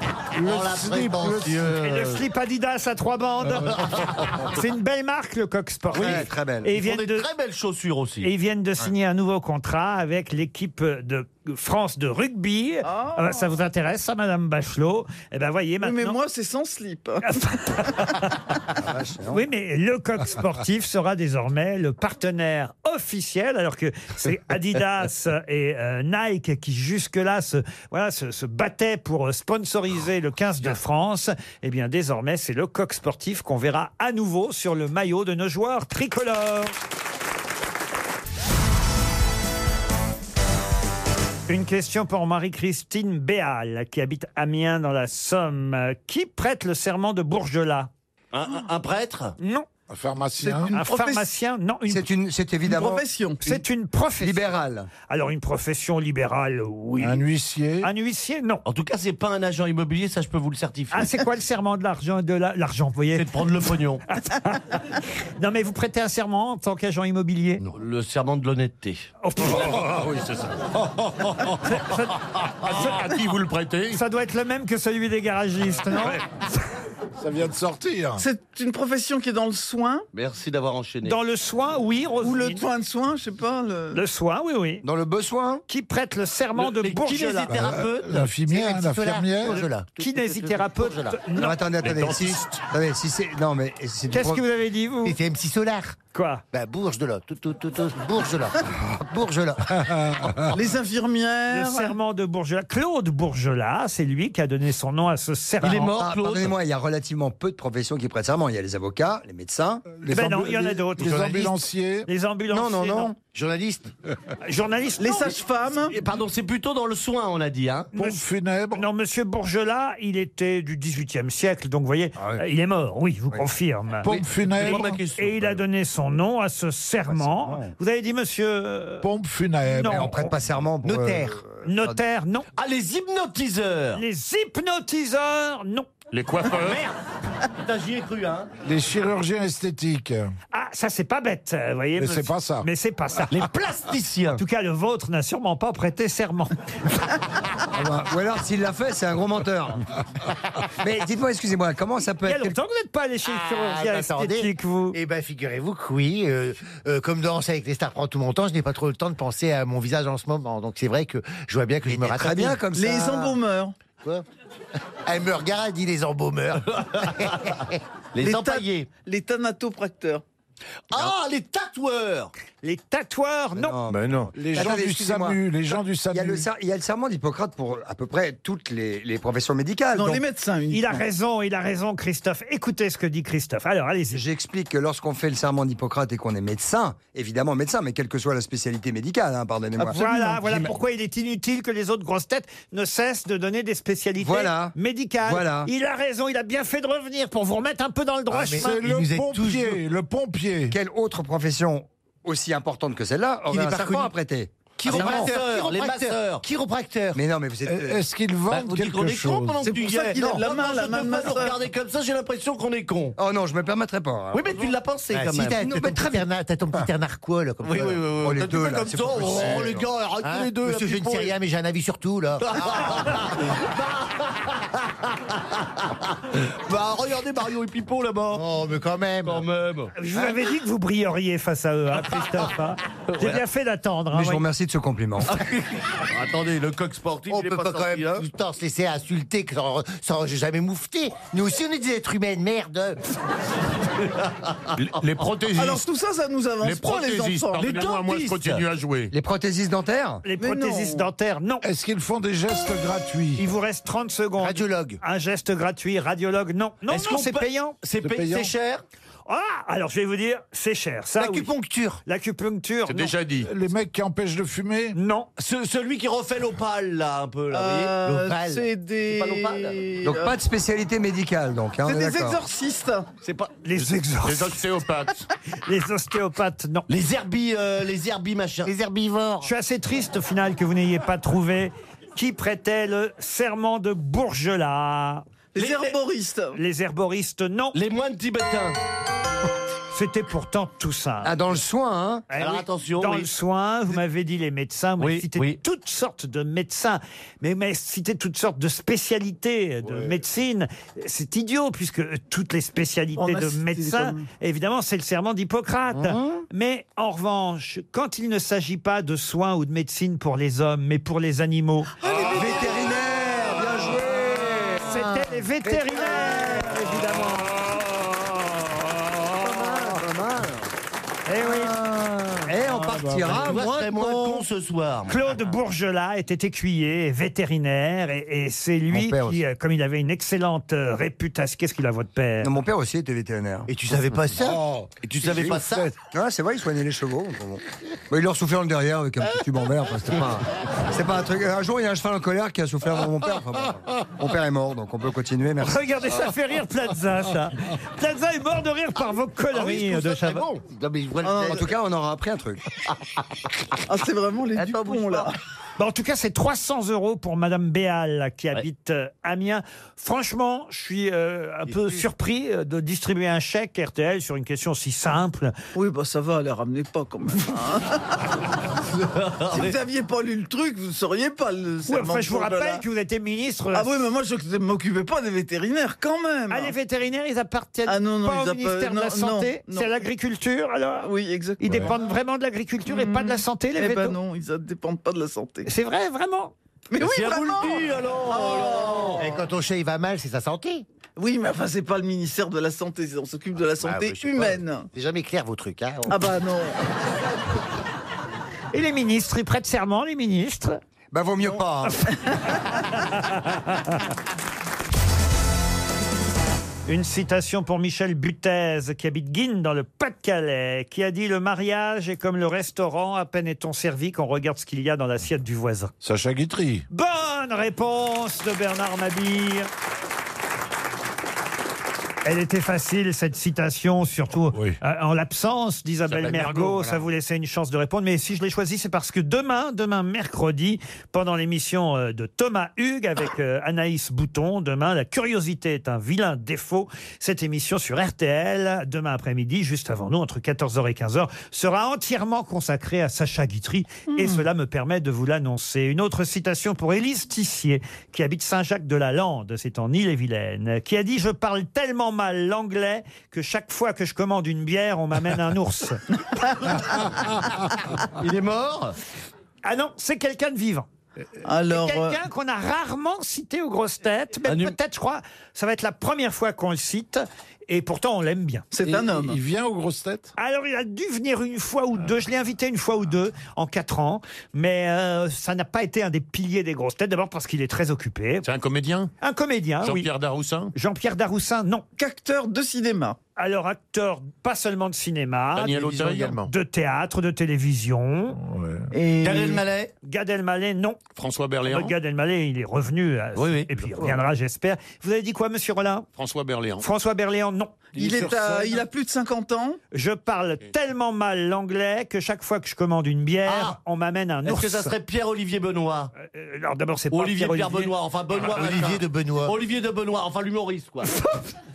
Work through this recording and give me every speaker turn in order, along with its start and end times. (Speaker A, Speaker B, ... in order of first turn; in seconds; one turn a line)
Speaker A: 0.4-2.2
Speaker B: 0.5-1.8
Speaker C: 1.7-7.3
Speaker B: 6.0-6.7
Speaker A: 6.0-8.3
Speaker C: 8.2-16.2
Speaker D: 12.8-13.5
Speaker D: 15.8-17.9
Speaker C: 17.2-18.7
Speaker B: 18.8-19.4
Speaker C: 19.3-36.7
Speaker C: 41.5-47.9
Speaker A: 48.3-49.4
Speaker C: 49.4-49.7
Speaker E: 49.9-50.8
Speaker D: 50.4-51.2
Speaker C: 50.7-52.1
Speaker B: 51.9-53.1
Speaker D: 52.6-53.5
Speaker C: 53.4-54.5
Speaker B: 54.2-54.9
Speaker C: 55.1-57.2
Speaker E: 57.0-57.9
Speaker C: 57.8-58.6
Speaker A: 58.6-61.2
Speaker C: 60.9-63.3
Speaker A: 63.1-64.0
Speaker C: 64.1-67.6
Speaker A: 67.6-69.1
Speaker C: 69.2-69.7
Speaker F: 69.4-70.7
Speaker C: 71.7-73.0
Speaker F: 72.6-74.0
Speaker C: 73.9-76.2
Speaker F: 75.9-76.2
Speaker E: 77.2-78.2
Speaker D: 78.2-80.1
Speaker A: 80.1-81.2
Speaker C: 81.0-82.7
Speaker D: 82.2-84.0
Speaker C: 83.9-84.8
Speaker B: 84.8-85.6
Speaker C: 85.7-87.5
Speaker A: 86.5-88.3
Speaker E: 87.5-89.7
Speaker G: 88.5-91.2
Speaker C: 90.0-91.6
Speaker B: 91.3-94.4
Speaker F: 91.8-92.6
Speaker C: 94.1-95.2
Speaker G: 95.0-96.0
Speaker C: 96.1-96.4
Speaker G: 96.5-100.5
Speaker E: 100.1-100.4
Speaker D: 100.5-102.0
Speaker C: 101.5-105.9
Speaker A: 105.6-106.5
Speaker B: 105.6-110.0
Speaker E: 109.9-112.1
Speaker C: 110.1-113.1
Speaker B: 112.5-113.2
Speaker G: 113.3-113.9
Speaker C: 114.4-115.4
Speaker D: 115.0-116.0
Speaker A: 115.8-117.9
Speaker C: 118.0-129.1
Speaker E: 118.0-118.8
Speaker E: 124.0-125.0
Speaker A: 124.1-125.6
Speaker B: 127.1-127.7
Speaker E: 129.0-130.1
Speaker C: 129.6-130.3
Speaker B: 129.9-132.0
Speaker G: 130.8-131.4
Speaker C: 131.6-132.4
Speaker A: 132.6-134.0
Speaker C: 133.9-135.9
Speaker F: 136.1-136.8
Speaker A: 136.5-137.0
Speaker A: 137.5-138.5
Speaker E: 138.7-140.3
Speaker C: 140.5-143.4
Speaker E: 142.0-142.7
Speaker A: 143.3-144.4
Speaker C: 144.3-147.1
Speaker B: 147.7-149.8
Speaker B: 150.8-152.6
Speaker C: 152.2-155.0
Speaker G: 153.2-162.6
Speaker B: 161.9-163.4
Speaker D: 162.7-163.8
Speaker G: 165.1-167.8
Speaker A: 168.1-168.9
Speaker D: 168.2-170.2
Speaker A: 170.9-172.3
Speaker C: 172.6-173.8
Speaker B: 173.6-175.4
Speaker G: 173.9-174.3
Speaker E: 174.3-176.5
Speaker B: 176.1-180.2
Speaker D: 179.9-181.0
Speaker C: 180.7-184.2
Speaker B: 184.1-190.7
Speaker C: 189.8-198.8
Speaker B: 194.2-195.7
Speaker G: 198.3-199.8
Speaker E: 198.6-200.8
Speaker B: 200.7-205.3
Speaker G: 203.5-204.1
Speaker G: 204.8-207.2
Speaker A: 204.8-206.4
Speaker B: 207.1-208.0
Speaker E: 207.6-209.7
Speaker A: 208.5-213.2
Speaker D: 209.6-211.6
Speaker B: 213.2-214.7
Speaker A: 214.3-215.7
Speaker G: 215.1-218.0
Speaker B: 215.6-216.9
Speaker A: 217.6-221.3
Speaker B: 218.2-219.9
Speaker G: 220.2-223.5
Speaker A: 222.4-228.4
Speaker G: 228.3-229.4
Speaker A: 229.2-230.4
Speaker C: 230.0-234.4
Speaker A: 233.1-233.4
Speaker B: 234.1-235.4
Speaker A: 235.3-238.3
Speaker G: 237.3-243.0
Speaker A: 244.1-244.6
Speaker F: 244.8-245.8
Speaker D: 245.5-247.7
Speaker F: 246.6-249.1
Speaker A: 247.6-248.6
Speaker B: 249.1-250.2
Speaker C: 250.2-251.6
Speaker D: 250.4-251.1
Speaker E: 251.6-253.4
Speaker C: 253.4-257.8
Speaker G: 254.4-255.0
Speaker A: 256.9-258.8
Speaker E: 258.0-258.5
Speaker C: 259.3-261.5
Speaker G: 261.2-262.0
Speaker C: 262.1-263.1
Speaker F: 262.9-263.5
Speaker E: 263.4-265.0
Speaker C: 264.9-265.3
Speaker A: 265.4-269.8
Speaker D: 267.5-270.4
Speaker G: 268.1-268.6
Speaker B: 270.0-272.4
Speaker D: 271.8-273.1
Speaker A: 273.2-273.5
Speaker C: 273.6-274.6
Speaker F: 274.2-275.3
Speaker C: 275.6-276.9
Speaker A: 276.9-278.7
Speaker G: 278.6-279.5
Speaker C: 279.4-285.3
Speaker D: 285.6-286.6
Speaker A: 285.6-286.0
Speaker C: 286.5-287.8
Speaker A: 287.7-288.8
Speaker C: 289.9-291.3
Speaker B: 291.2-292.3
Speaker C: 292.3-311.9
Speaker A: 292.4-293.3
Speaker A: 295.0-295.6
Speaker E: 299.9-300.2
Speaker D: 303.2-304.3
Speaker G: 312.1-312.8
Speaker D: 312.2-312.6
Speaker B: 312.3-317.5
Speaker C: 314.8-317.6
Speaker B: 319.4-320.7
Speaker C: 321.3-321.8
Speaker B: 321.4-323.7
Speaker E: 322.6-323.6
Speaker A: 323.3-325.4
Speaker G: 323.7-324.2
Speaker C: 325.1-332.5
Speaker B: 328.9-329.4
Speaker B: 332.4-333.7
Speaker G: 333.7-334.6
Speaker E: 334.4-335.9
Speaker A: 334.4-336.0
Speaker B: 335.2-345.8
Speaker C: 345.6-350.5
Speaker A: 349.5-351.7
Speaker D: 351.2-351.6
Speaker B: 351.4-352.6
Speaker A: 352.9-353.2
Speaker D: 353.9-355.3
Speaker A: 354.5-355.3
Speaker C: 355.8-365.6
Speaker A: 361.7-362.0
Speaker D: 365.8-368.2
Speaker A: 369.1-369.8
Speaker D: 369.4-372.8
Speaker C: 371.9-374.1
Speaker D: 373.7-376.7
Speaker C: 376.5-384.2
Speaker D: 377.9-379.9
Speaker D: 381.0-381.9
Speaker E: 381.6-381.9
Speaker D: 382.9-385.7
Speaker C: 385.6-386.5
Speaker D: 386.9-389.3
Speaker A: 387.0-389.2
Speaker G: 389.2-390.9
Speaker D: 391.2-394.9
Speaker G: 393.6-396.3
Speaker D: 396.1-396.8
Speaker C: 398.7-400.8
Speaker B: 401.1-402.1
Speaker D: 402.1-402.6
Speaker C: 402.9-404.0
Speaker C: 406.9-415.9
Speaker E: 416.0-416.9
Speaker C: 416.9-419.7
Speaker C: 422.2-456.0
Speaker F: 426.2-426.8
Speaker A: 426.2-426.9
Speaker D: 444.1-444.4
Speaker D: 456.4-456.8
Speaker A: 458.2-459.0
Speaker C: 459.6-460.9
Speaker D: 461.4-462.2
Speaker C: 461.7-468.7
Speaker A: 464.4-464.8
Speaker D: 468.7-469.4
Speaker E: 468.8-470.3
Speaker C: 470.4-478.4
Speaker F: 478.4-479.1
Speaker C: 479.2-480.1
Speaker F: 479.8-480.7
Speaker C: 480.8-481.9
Speaker D: 482.0-483.2
Speaker C: 483.4-488.4
Speaker F: 485.6-486.5
Speaker G: 485.7-486.4
Speaker E: 488.4-488.9
Speaker D: 488.9-489.7
Speaker A: 489.2-489.9
Speaker C: 490.0-491.0
Speaker F: 491.2-491.9
Speaker C: 491.7-496.1
Speaker A: 493.4-494.1
Speaker F: 496.2-496.9
Speaker C: 496.8-497.9
Speaker D: 497.9-499.8
Speaker E: 498.0-498.8
Speaker C: 499.9-504.9
Speaker A: 503.4-503.8
Speaker A: 504.4-506.1
Speaker C: 506.2-507.9
Speaker A: 507.1-511.2
Speaker G: 508.4-509.6
Speaker C: 511.2-511.4